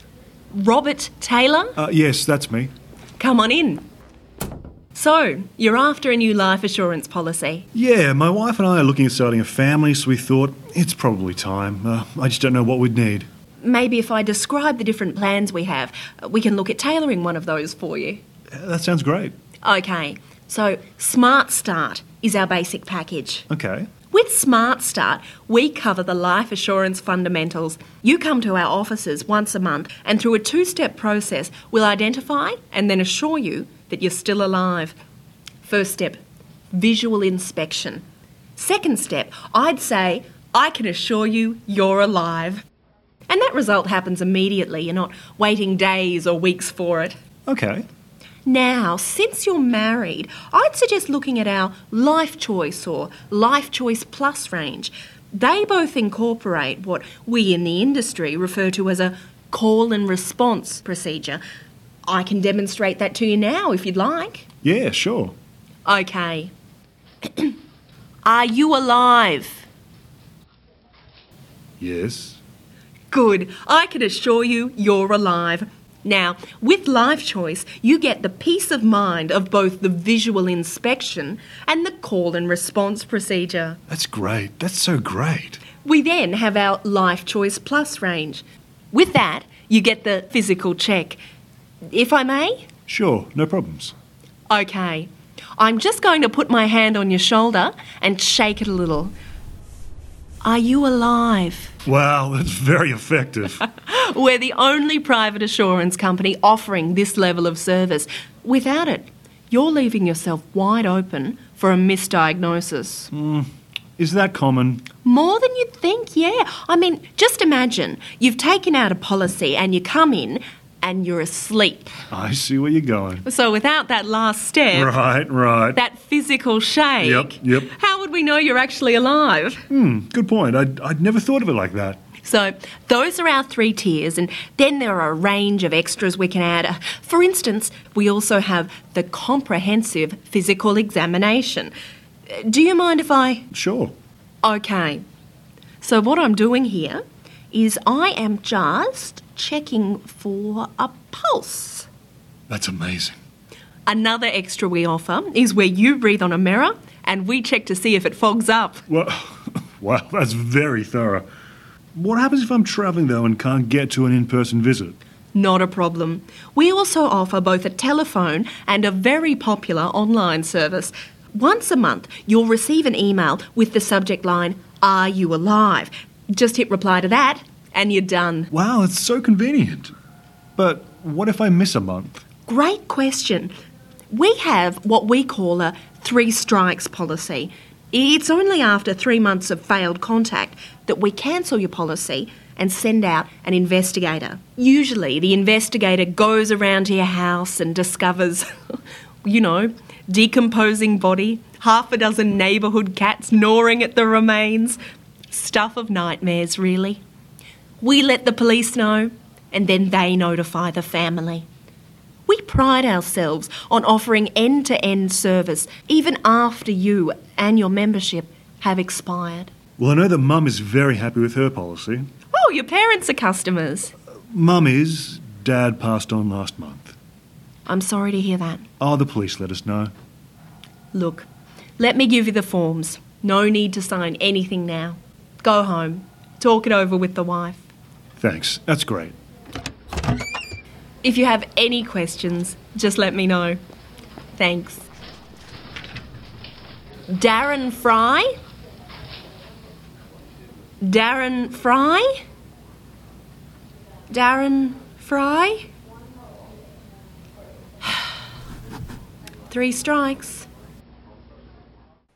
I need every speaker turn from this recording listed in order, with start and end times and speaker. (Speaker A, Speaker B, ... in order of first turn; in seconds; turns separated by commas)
Speaker A: 0.5-1.8, Speaker B: 1.8-2.7, Speaker A: 3.2-3.8, Speaker A: 4.9-7.7, Speaker B: 7.7-13.3, Speaker A: 13.6-18.2, Speaker B: 18.5-19.3, Speaker A: 19.6-23.5, Speaker B: 23.5-23.9, Speaker A: 24.1-34.9, Speaker A: 35.6-36.2, Speaker A: 36.7-38.0, Speaker A: 38.6-42.6, Speaker A: 43.3-47.1, Speaker B: 47.5-47.8, Speaker A: 48.4-61.4, Speaker A: 62.0-64.5, Speaker B: 64.6-65.3, Speaker A: 65.8-66.5, Speaker A: 67.2-67.5, Speaker A: 68.2-69.7, Speaker B: 71.8-72.4, Speaker A: 73.1-83.8, Speaker B: 83.9-85.6, Speaker A: 85.8-91.2, Speaker A: 91.9-92.7, Speaker B: 92.9-93.9, Speaker A: 94.5-99.1, Speaker A: 100.4-101.7, Speaker B: 101.8-103.6, Speaker A: 103.7-113.1, Speaker B: 113.1-114.8, Speaker A: 115.0-122.0, Speaker B: 122.1-123.2, Speaker A: 123.2-124.9, Speaker B: 124.7-125.8, Speaker A: 125.8-129.6, Speaker B: 127.0-127.7, Speaker B: 129.7-132.0, Speaker A: 132.2-141.7, Speaker A: 142.3-143.5, Speaker B: 143.5-143.9, Speaker A: 144.4-145.0, Speaker A: 145.8-151.9, Speaker B: 152.5-153.2, Speaker A: 153.9-158.8, Speaker B: 158.9-161.2, Speaker B: 161.9-165.0, Speaker A: 165.3-178.5, Speaker B: 178.5-179.9, Speaker B: 180.6-182.2, Speaker A: 182.4-183.5, Speaker A: 184.1-204.8, Speaker A: 205.3-207.0, Speaker A: 207.8-211.4, Speaker A: 212.3-219.5, Speaker B: 219.8-222.1, Speaker A: 222.3-223.9, Speaker B: 224.3-226.9, Speaker A: 227.7-228.7, Speaker B: 228.8-229.9, Speaker A: 230.9-231.3, Speaker A: 231.8-237.6, Speaker B: 238.2-239.1, Speaker A: 241.0-243.6, Speaker A: 244.4-244.8, Speaker A: 247.1-248.3, Speaker A: 250.8-252.1, Speaker A: 254.1-255.6, Speaker A: 259.5-260.5